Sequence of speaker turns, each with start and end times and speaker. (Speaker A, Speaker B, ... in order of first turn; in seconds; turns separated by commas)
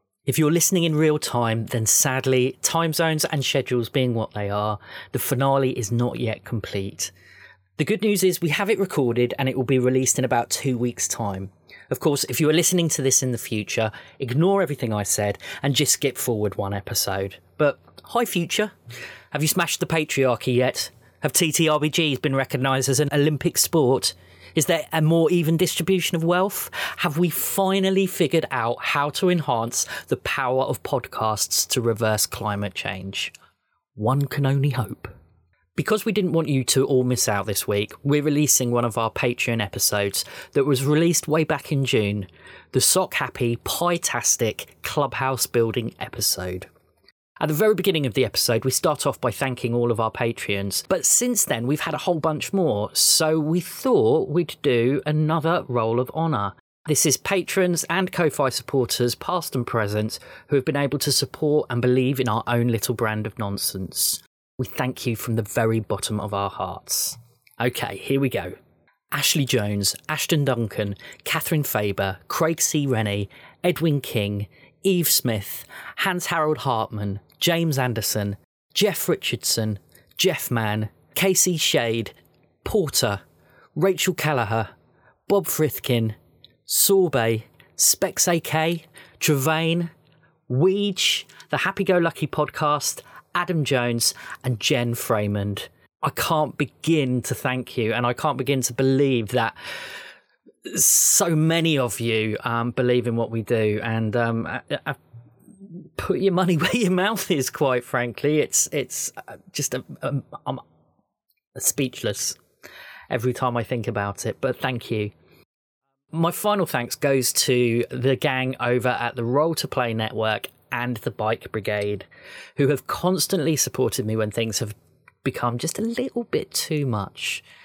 Speaker A: 0.3-7.1, Speaker A: 7.8-18.7, Speaker A: 19.3-33.3, Speaker A: 34.0-35.1, Speaker A: 35.8-46.7, Speaker A: 47.4-68.6, Speaker A: 69.1-83.2, Speaker A: 83.8-84.7, Speaker A: 85.3-86.2, Speaker A: 86.7-89.9, Speaker A: 90.5-99.6, Speaker A: 100.7-105.0, Speaker A: 105.8-110.6, Speaker A: 111.6-112.4, Speaker A: 113.1-115.1, Speaker A: 116.1-127.4